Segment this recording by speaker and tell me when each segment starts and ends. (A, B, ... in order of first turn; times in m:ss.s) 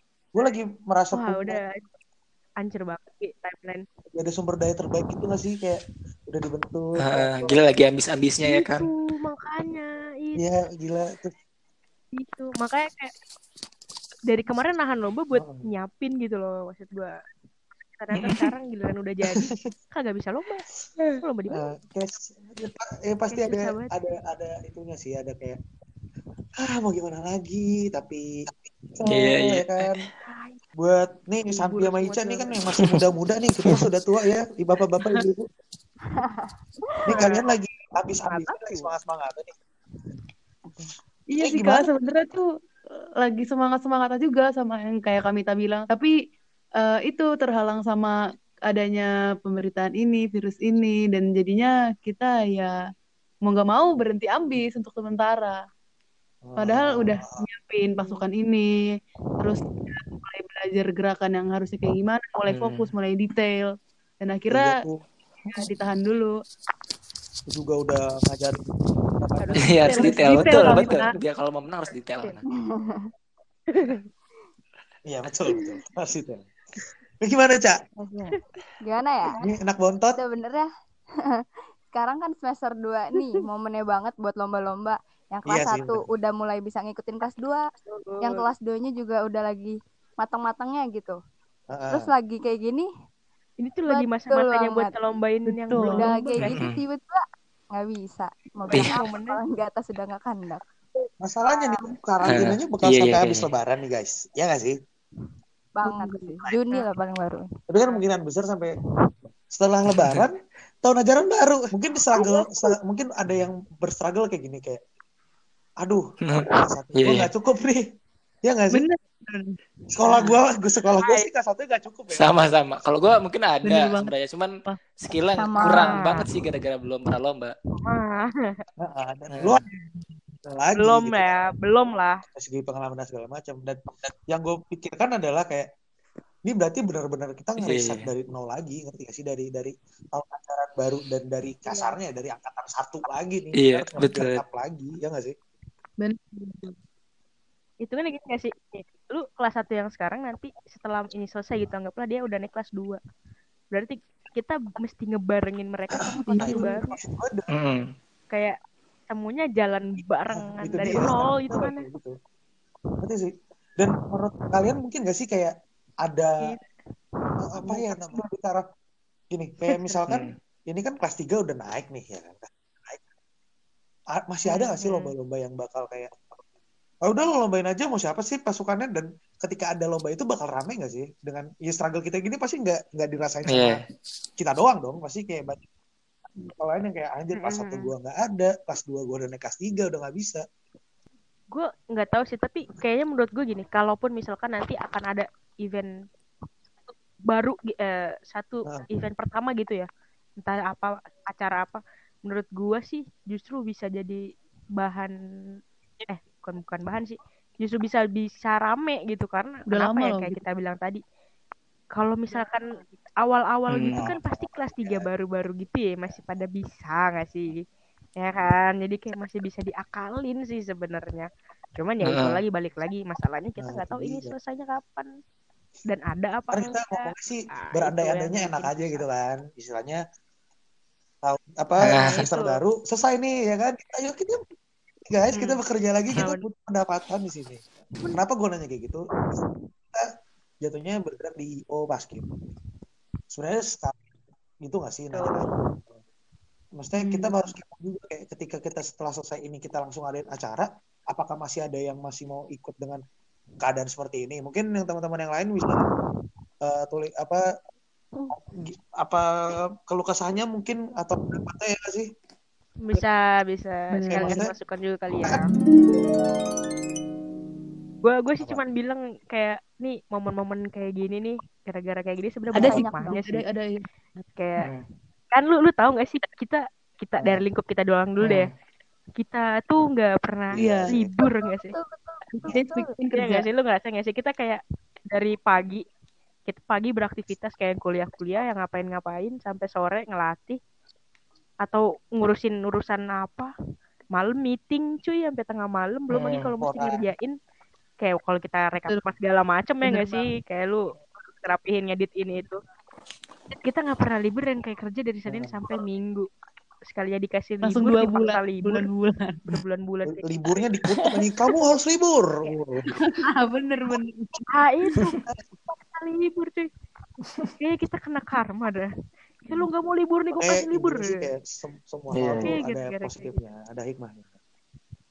0:00.3-0:01.6 A
0:01.1-0:01.9 B
0:02.6-0:03.8 B
0:04.1-0:07.5 A
0:07.0-0:08.9 C
0:08.4-0:10.4 B
0:10.4-0:11.3 A
0:12.1-0:13.1 B
0:14.3-0:17.1 B
0:15.3-0:15.7 A
0:17.9-0:20.6 B
0:19.2-0:19.7 A
0:21.2-0:21.7 B
0:21.5-0:25.6 A
0:23.3-0:23.9 B
0:26.6-0:30.0 A
0:29.1-0:30.0 C
0:30.2-0:30.6 B
0:30.8-0:35.5 A
0:31.5-0:32.6 B
0:35.0-0:35.2 D
0:36.2-0:37.2 E
0:37.1-0:39.6 A
0:37.1-0:37.4 B
0:38.2-0:38.9 B
0:41.3-0:42.5 D
0:41.4-0:41.9 A
0:43.2-0:46.1 D
0:46.8-0:52.8 D
0:53.4-0:55.6 D
0:56.4-0:57.4 A
0:56.6-0:58.7 D
0:59.4-1:04.8 D
1:02.4-1:02.9 C
1:04.5-1:05.0 A
1:05.5-1:06.4 D
1:07.5-1:10.9 A
1:09.4-1:11.1 B
1:09.6-1:12.4 C
1:09.8-1:11.1 D
1:12.5-1:13.1 E
1:13.7-1:14.0 B
1:15.1-1:16.4 A
1:17.2-1:17.8 A
1:18.0-1:19.4 E
1:19.4-1:20.2 A
1:20.1-1:20.7 E
1:21.9-1:27.6 E
1:25.5-1:26.0 A
1:27.9-1:28.4 B
1:28.2-1:31.2 E
1:31.7-1:32.1 A
1:31.9-1:32.9 E
1:33.6-1:36.6 B
1:33.9-1:34.9 E
1:35.5-1:36.2 D
1:35.8-1:40.6 E
1:36.4-1:36.8 C
1:38.7-1:39.4 B
1:38.7-1:39.0 C
1:41.2-1:44.8 A
1:42.2-1:43.5 C
1:45.8-1:47.5 E
1:45.9-1:46.4 D
1:47.7-1:48.8 A
1:49.3-1:54.8 A
1:49.9-1:50.2 C
1:55.8-1:57.8 A
1:56.2-1:57.3 C
1:58.4-1:58.9 A
1:58.7-1:59.6 D
1:59.9-2:02.4 A
2:01.0-2:01.3 B
2:02.1-2:07.5 C
2:03.6-2:04.1 D
2:05.4-2:06.0 E
2:05.7-2:06.3 B
2:07.8-2:08.6 B
2:08.8-2:09.6 A
2:09.3-2:09.6 C
2:10.4-2:11.5 A
2:10.8-2:12.2 B
2:12.2-2:15.7 A
2:16.4-2:25.4 A
2:17.6-2:18.1 C
2:21.7-2:21.9 B
2:23.6-2:24.4 C
2:26.0-2:26.8 D
2:27.8-2:33.0 B
2:33.7-2:37.0 B
2:36.0-2:37.5 A
2:36.2-2:36.8 D
2:37.5-2:37.9 C
2:38.3-2:38.6 B
2:39.1-2:41.8 B
2:40.0-2:42.2 A
2:43.0-2:45.5 A
2:46.0-2:46.6 A
2:46.4-2:46.7 B
2:47.4-2:48.6 A
2:47.5-2:48.3 B
2:49.3-2:53.0 A
2:49.7-2:50.0 B
2:50.1-2:50.4 C
2:54.1-2:56.4 A
2:54.5-2:55.1 B
2:57.0-3:03.8 A
3:03.5-3:03.8 C
3:04.4-3:05.6 A
3:06.4-3:10.4 A
3:07.4-3:07.9 B
3:11.5-3:15.9 B
3:17.3-3:19.9 B
3:20.4-3:24.2 B
3:24.8-3:25.1 B
3:26.1-3:31.0 B
3:29.7-3:30.4 D
3:32.0-3:32.7 B
3:33.2-3:37.5 B
3:33.7-3:34.1 C
3:34.0-3:35.1 A
3:38.2-3:45.1 B
3:42.0-3:42.4 C
3:43.6-3:44.3 A
3:45.9-3:49.0 B
3:46.5-3:50.0 A
3:51.2-3:54.4 A
3:51.8-3:52.3 C
3:51.9-3:52.6 B
3:55.1-4:00.0 A
3:55.3-3:55.6 B
3:56.1-3:56.4 B
4:00.6-4:02.2 A
4:03.3-4:04.0 A
4:04.6-4:06.0 A
4:05.1-4:05.6 B
4:06.8-4:13.0 A
4:07.1-4:07.4 D
4:13.6-4:15.9 A
4:16.6-4:17.4 A
4:18.4-4:19.2 A
4:19.9-4:22.1 A
4:22.8-4:25.4 B
4:23.9-4:24.4 D
4:24.1-4:24.5 A
4:28.0-4:33.4 B
4:32.5-4:33.8 D
4:32.7-4:33.2 E
4:34.4-4:34.7 B
4:34.6-4:34.8 C
4:35.3-4:38.5 B
4:37.2-4:37.4 A
4:38.2-4:38.5 C
4:39.2-4:41.7 B
4:40.5-4:41.1 A
4:40.6-4:41.0 D
4:41.2-4:42.9 E
4:42.4-4:43.5 D
4:43.1-4:45.8 B
4:46.5-4:50.6 B
4:51.6-4:53.5 B
4:54.1-4:57.4 B
4:56.2-4:56.5 C
4:56.5-4:57.1 A
4:58.0-5:02.6 B
4:59.8-5:00.2 D
5:03.6-5:06.3 B
5:05.3-5:05.7 A
5:06.9-5:08.9 B
5:07.6-5:09.4 D
5:09.5-5:10.3 B
5:10.1-5:12.9 A
5:12.9-5:14.3 D
5:14.5-5:16.7 B
5:15.2-5:15.6 A
5:17.6-5:18.9 B
5:19.4-5:21.1 B
5:20.4-5:24.3 A
5:22.1-5:22.6 C
5:22.4-5:23.4 B